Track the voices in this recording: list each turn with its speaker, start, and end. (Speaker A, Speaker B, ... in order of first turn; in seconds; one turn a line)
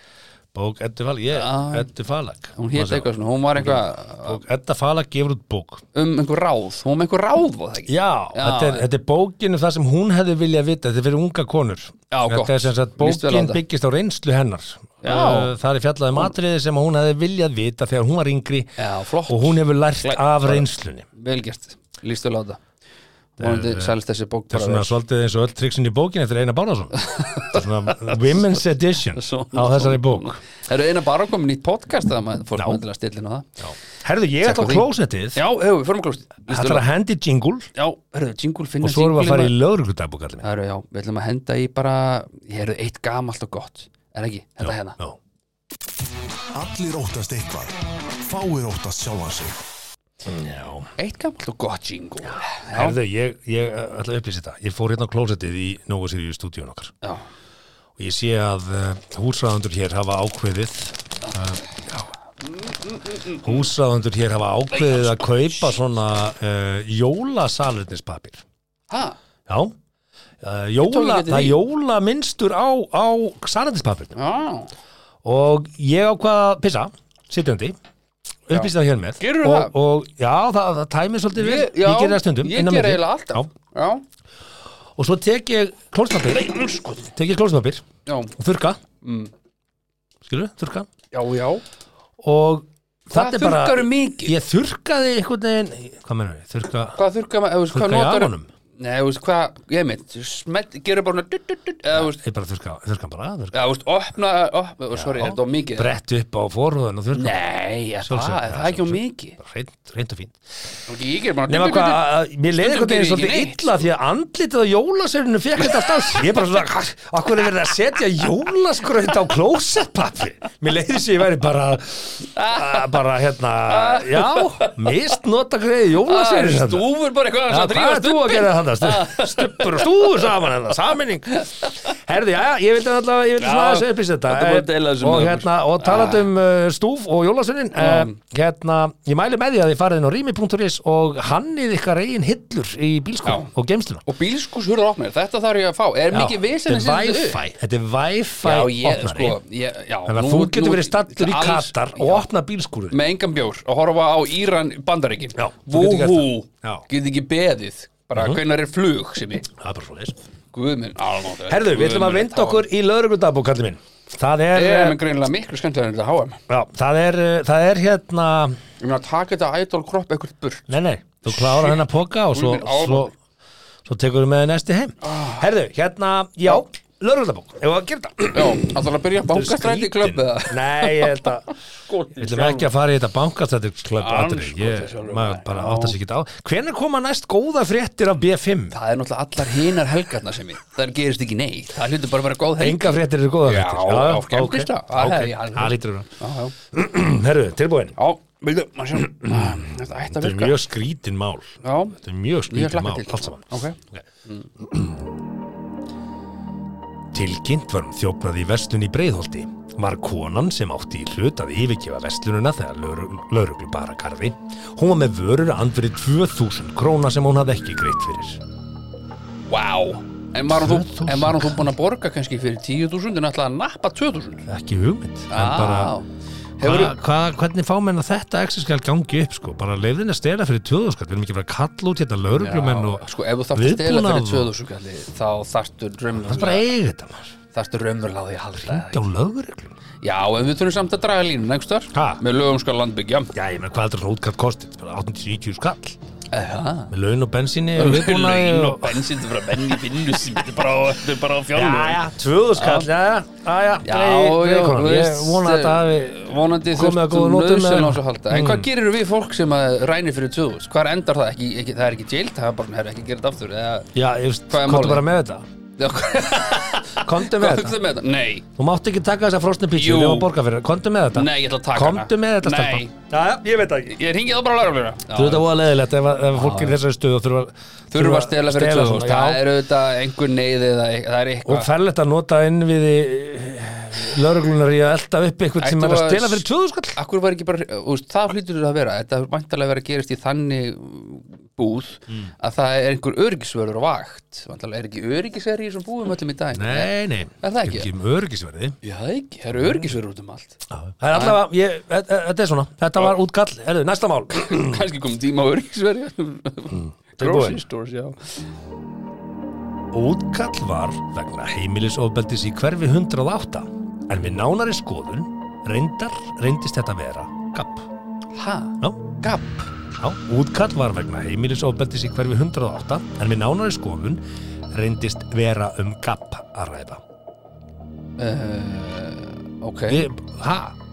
Speaker A: 0.5-5.8
Speaker B: 1.3-1.9
Speaker B: 2.6-4.4
Speaker B: 5.9-8.8
Speaker A: 7.9-21.1
Speaker B: 12.1-13.6
Speaker B: 15.0-15.5
Speaker B: 18.8-22.6
Speaker B: 23.4-24.9
Speaker A: 23.4-24.0
Speaker A: 24.5-30.4
Speaker B: 27.0-28.6
Speaker B: 29.1-33.5
Speaker A: 32.6-32.8
Speaker A: 33.6-35.4
Speaker B: 34.4-36.9
Speaker A: 36.5-37.7
Speaker B: 37.8-39.5
Speaker A: 38.8-40.5
Speaker B: 40.4-45.0
Speaker A: 44.6-45.2
Speaker C: 46.5-49.6
Speaker A: 50.3-50.9
Speaker B: 51.0-53.0
Speaker A: 52.3-57.0
Speaker A: 58.0-62.1
Speaker B: 62.4-63.6
Speaker A: 63.4-68.4
Speaker B: 64.7-65.8
Speaker B: 68.9-69.2
Speaker A: 69.5-69.7
Speaker A: 70.4-74.2
Speaker B: 70.8-71.6
Speaker B: 74.2-74.7
Speaker A: 75.2-77.8
Speaker A: 78.5-83.5
Speaker B: 78.5-79.7
Speaker B: 81.3-84.0
Speaker A: 85.0-87.8
Speaker B: 88.1-88.3
Speaker A: 88.4-88.8
Speaker B: 89.0-89.3
Speaker A: 90.2-90.9
Speaker B: 91.1-91.6
Speaker A: 92.2-97.0
Speaker B: 93.1-94.4
Speaker B: 97.0-102.2
Speaker A: 97.7-98.5
Speaker A: 101.9-103.6
Speaker B: 103.5-105.9
Speaker A: 104.9-107.4
Speaker B: 107.1-109.4
Speaker A: 108.0-110.4
Speaker B: 110.9-113.8
Speaker A: 111.5-126.8
Speaker B: 115.6-115.9
Speaker B: 122.3-123.0
Speaker B: 123.7-125.0
Speaker B: 126.1-130.3
Speaker A: 127.5-144.1
Speaker B: 133.4-136.3
Speaker B: 137.8-138.1
Speaker B: 144.1-147.4
Speaker A: 146.1-149.4
Speaker B: 148.4-152.3
Speaker A: 150.1-153.0
Speaker B: 152.9-159.5
Speaker A: 155.4-156.9
Speaker A: 158.2-158.4
Speaker A: 159.6-160.2
Speaker B: 160.5-162.7
Speaker A: 161.5-165.0
Speaker B: 164.5-166.4
Speaker A: 166.5-168.6
Speaker B: 168.8-170.7
Speaker A: 170.7-173.1
Speaker B: 171.3-171.8
Speaker B: 172.3-173.1
Speaker A: 173.9-178.7
Speaker B: 175.0-175.5
Speaker B: 178.3-181.3
Speaker A: 179.3-181.5
Speaker B: 181.9-182.7
Speaker A: 182.2-188.8
Speaker B: 184.0-186.0
Speaker B: 188.7-196.5
Speaker A: 192.6-196.1
Speaker A: 196.7-198.0
Speaker B: 198.0-200.6
Speaker A: 199.0-204.0
Speaker B: 201.6-202.0
Speaker B: 202.5-204.5
Speaker A: 204.6-205.1
Speaker A: 207.1-218.4
Speaker B: 219.5-224.4
Speaker A: 220.5-221.7
Speaker A: 224.5-225.9
Speaker B: 225.3-226.1
Speaker B: 226.6-227.0
Speaker A: 226.6-234.5
Speaker B: 232.4-236.7
Speaker A: 236.2-237.3
Speaker B: 237.5-239.0
Speaker A: 238.6-239.8
Speaker B: 240.0-243.3
Speaker A: 241.9-242.2
Speaker A: 243.3-246.0
Speaker B: 246.3-246.9
Speaker A: 246.9-249.0
Speaker B: 247.8-252.0
Speaker A: 251.5-258.7
Speaker B: 252.6-252.9
Speaker B: 253.8-263.9
Speaker A: 263.9-265.4
Speaker B: 264.5-265.1
Speaker B: 265.8-268.5
Speaker A: 266.9-267.8
Speaker A: 268.6-274.0
Speaker B: 269.7-270.3
Speaker B: 271.1-272.9
Speaker B: 273.9-275.5
Speaker A: 275.1-279.4
Speaker B: 276.4-276.8
Speaker B: 277.9-281.7
Speaker A: 281.4-287.0
Speaker B: 285.6-297.9
Speaker A: 296.5-298.8
Speaker B: 298.8-300.6
Speaker A: 300.7-304.8
Speaker B: 301.1-301.4
Speaker B: 304.3-308.4
Speaker A: 306.7-307.6
Speaker A: 309.9-317.9
Speaker B: 318.3-319.7
Speaker A: 318.8-319.1
Speaker A: 320.0-327.0
Speaker B: 328.2-330.1
Speaker A: 329.9-330.8